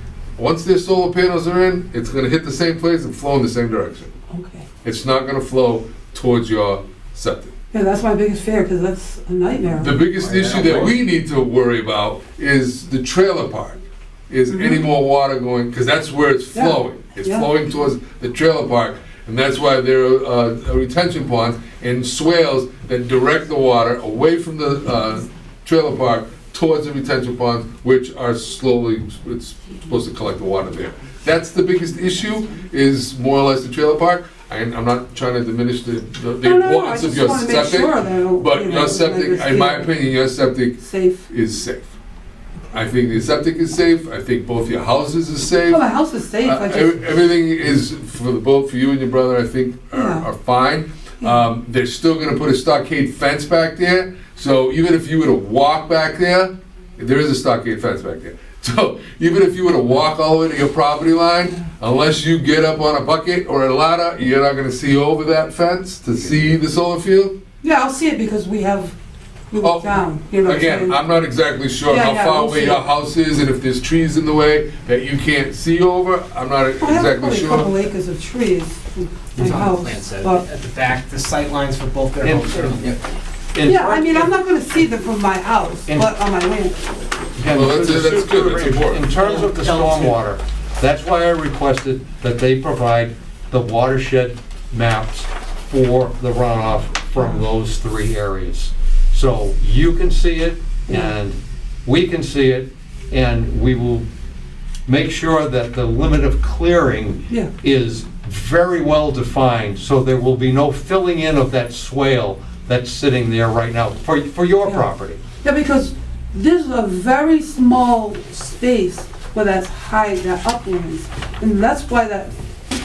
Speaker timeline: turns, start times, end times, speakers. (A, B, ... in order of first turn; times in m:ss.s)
0:00.4-0:04.1 A
0:04.3-0:04.7 B
0:04.8-0:07.5 A
0:07.7-0:10.0 B
0:09.8-0:41.9 A
0:14.5-0:14.8 B
0:16.5-0:17.5 B
0:36.4-0:40.0 B
0:40.8-0:41.3 B
0:42.7-0:45.8 A
0:45.7-0:47.0 B
0:46.4-1:07.4 A
0:49.9-0:50.3 B
1:07.6-1:09.0 B
1:09.5-1:11.0 B
1:09.6-1:17.7 A
1:11.9-1:12.8 B
1:16.8-1:20.4 B
1:19.3-1:23.0 C
1:22.2-1:22.8 D
1:23.5-1:24.3 D
1:23.6-1:27.3 B
1:27.4-1:44.1 D
1:27.5-1:29.1 A
1:29.2-1:30.2 C
1:44.9-1:55.2 D
1:55.4-2:02.3 B